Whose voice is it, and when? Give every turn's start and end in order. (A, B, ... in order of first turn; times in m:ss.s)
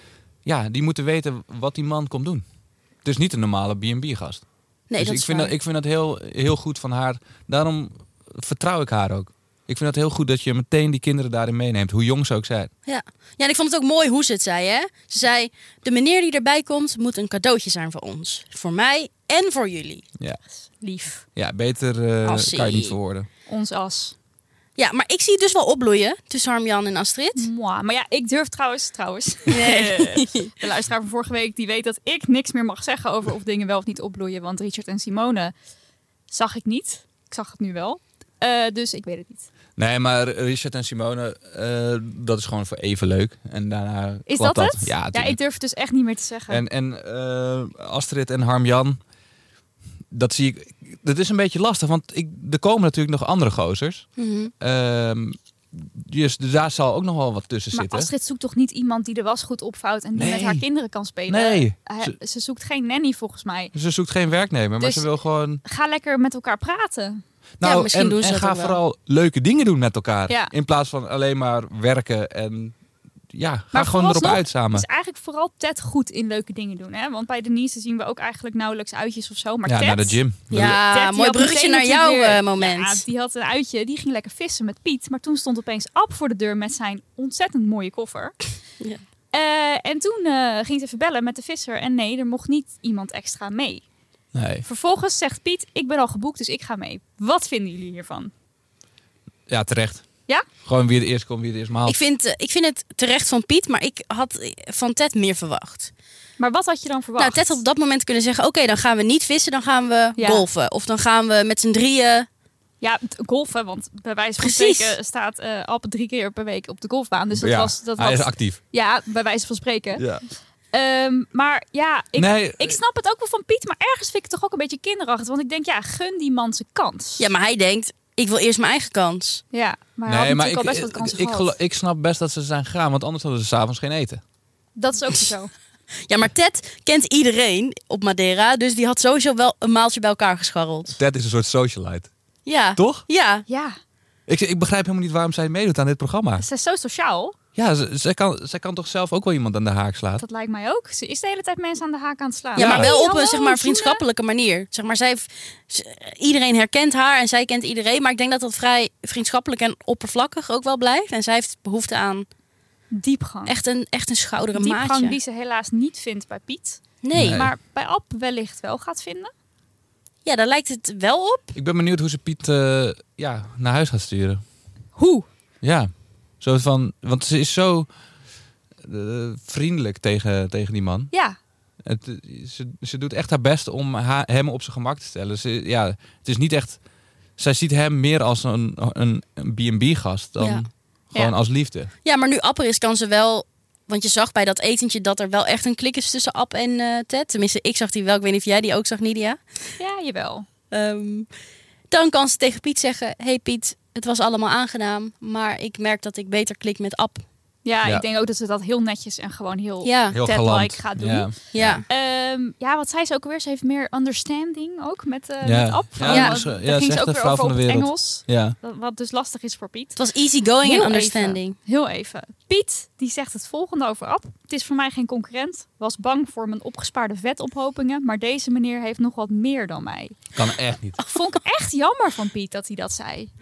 0:00.4-0:02.4 A
0:03.0-0:04.4 A
0:04.9-0:05.6 B
0:05.0-0:12.7 A
0:12.9-0:20.1 B
0:20.8-0:21.2 C
0:21.4-0:23.3 A
0:22.2-0:23.0 B
0:23.5-0:24.2 C
0:24.8-0:27.5 B
0:27.4-0:35.5 C
0:29.5-0:30.6 B
0:36.3-0:39.5 C
0:39.8-0:45.4 A
0:44.3-0:46.6 C
0:46.5-0:49.0 A
0:50.1-0:58.1 A
0:54.2-0:54.5 B
0:57.7-1:03.7 C
1:00.2-1:00.7 A
1:01.3-1:02.2 A
1:03.7-1:05.6 A
1:04.8-1:05.1 C
1:05.6-1:07.2 C
1:07.6-1:12.8 A
1:07.6-1:08.8 B
1:13.3-1:14.9 A
1:13.7-1:28.4 C
1:19.7-1:20.8 A
1:20.5-1:23.0 B
1:29.3-1:33.8 C
1:34.3-1:34.7 A
1:34.6-1:38.3 C
1:39.5-1:40.0 A
1:40.6-1:42.0 A
1:41.9-1:45.9 B
1:46.4-1:47.6 C
1:47.2-1:52.3 B
1:50.2-1:50.5 C
1:52.8-2:00.0 C
1:54.4-1:55.0 B
1:57.3-1:58.6 A
2:00.0-2:00.2 A
2:00.7-2:07.3 C
2:02.2-2:02.8 A
2:07.2-2:09.4 B
2:09.5-2:11.6 C
2:10.1-2:14.2 A
2:14.8-2:15.5 C
2:16.1-2:21.0 B
2:20.9-2:22.1 A
2:22.4-2:23.5 B
2:22.8-2:23.1 A
2:23.5-2:23.8 C
2:24.3-2:26.4 A
2:26.4-2:27.4 C
2:27.6-2:30.2 A
2:30.2-2:34.0 C
2:32.6-2:42.3 B
2:32.6-2:32.9 A
2:42.9-2:43.5 C
2:43.5-2:45.2 B
2:44.6-2:49.3 C
2:47.0-2:47.4 B
2:47.1-2:47.5 A
2:50.2-2:51.6 B
2:51.6-2:54.4 A
2:55.0-2:55.3 C
2:55.6-2:55.9 A
2:56.4-2:57.9 A
2:58.8-3:01.1 A
3:01.1-3:01.4 C
3:01.8-3:06.8 A
3:07.4-3:11.9 A
3:10.4-3:10.7 B
3:12.0-3:19.4 B
3:19.8-3:20.5 C
3:20.7-3:21.3 B
3:21.9-3:27.2 B
3:27.6-3:31.3 C
3:29.8-3:30.2 B
3:30.1-3:31.8 A
3:31.5-3:31.9 B
3:31.9-3:40.0 C
3:35.4-3:38.6 A
3:36.0-3:36.4 B
3:40.0-3:41.6 B
3:40.6-3:50.2 C
3:50.4-3:51.0 A
3:51.0-3:53.3 C